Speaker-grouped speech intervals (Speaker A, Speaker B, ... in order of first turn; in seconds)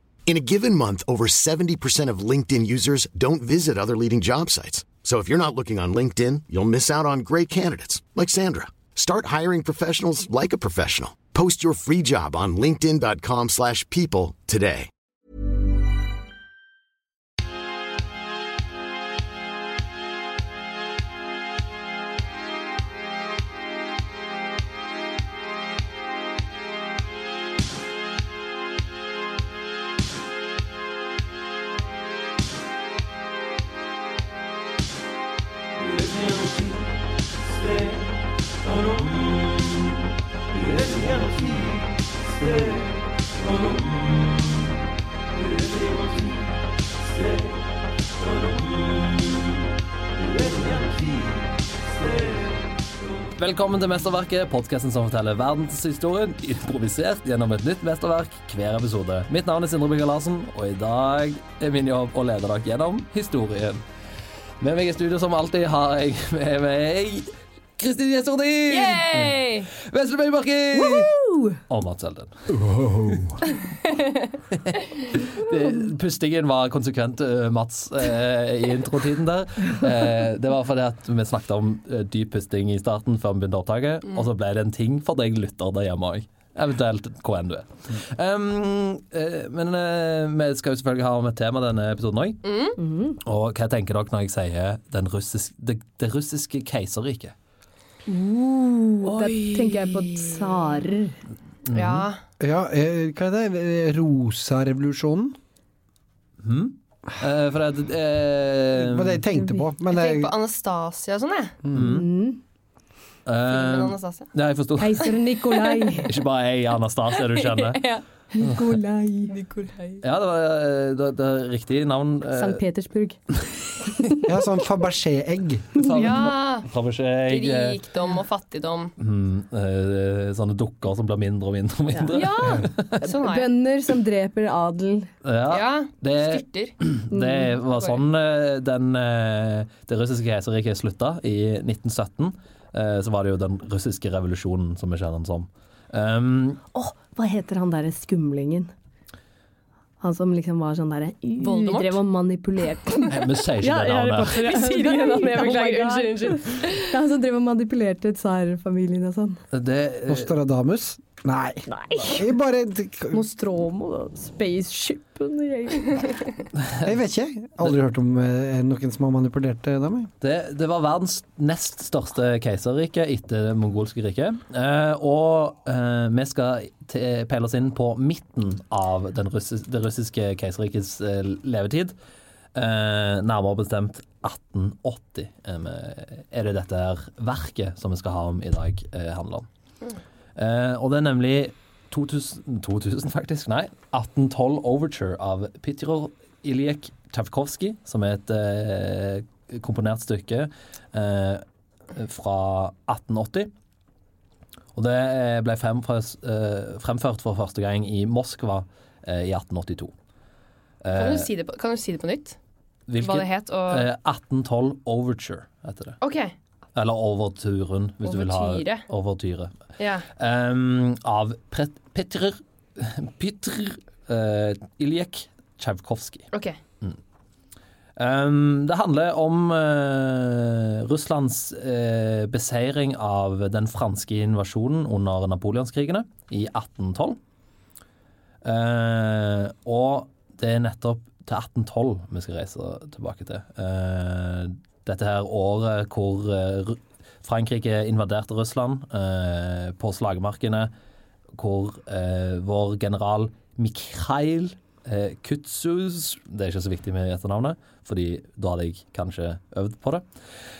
Speaker A: 0.3-14.9
Speaker B: 53.3-63.8, 64.6-71.1, 71.7-72.4, 74.7-92.4, 93.2-97.3, 101.7-102.1, 106.4-109.2, 111.7-112.1, 113.3-115.1, 116.0-117.9, 120.0-122.6, 125.8-127.8, 129.0-133.0, 135.2-146.6, 153.1-154.6, 159.5-160.3, 166.6-166.9, 170.2-181.9, 182.5-189.5, 190.3-203.5, 204.7-209.9, 210.8-211.3, 212.9-216.0, 216.7-226.3, 228.0-237.2, 238.4-250.7, 251.3-260.0
Speaker C: 68.7-69.7, 92.4-92.8, 99.0-100.5, 101.7-102.2, 109.9-111.6, 113.5-114.3, 117.1-118.0, 119.3-120.0, 126.0-126.7, 127.3-128.9, 132.1-133.5, 135.5-136.7, 137.7-138.0, 151.4-152.0, 154.2-156.9, 210.9-212.4, 213.0-213.9, 216.0-216.3, 218.0-218.8, 219.8-220.1, 226.3-226.6
Speaker D: 70.7-71.6, 92.8-93.2, 98.1-101.2, 109.3-109.7, 111.7-112.4, 114.8-116.1, 118.3-119.4, 122.3-123.2, 123.8-124.2, 133.1-135.1, 137.1-137.5, 146.7-148.7, 150.0-159.4, 161.7-162.3, 163.1-166.2
Speaker E: 72.5-73.3, 102.4-105.4, 108.7-110.3, 124.2-125.8, 160.1-163.2, 166.8-170.1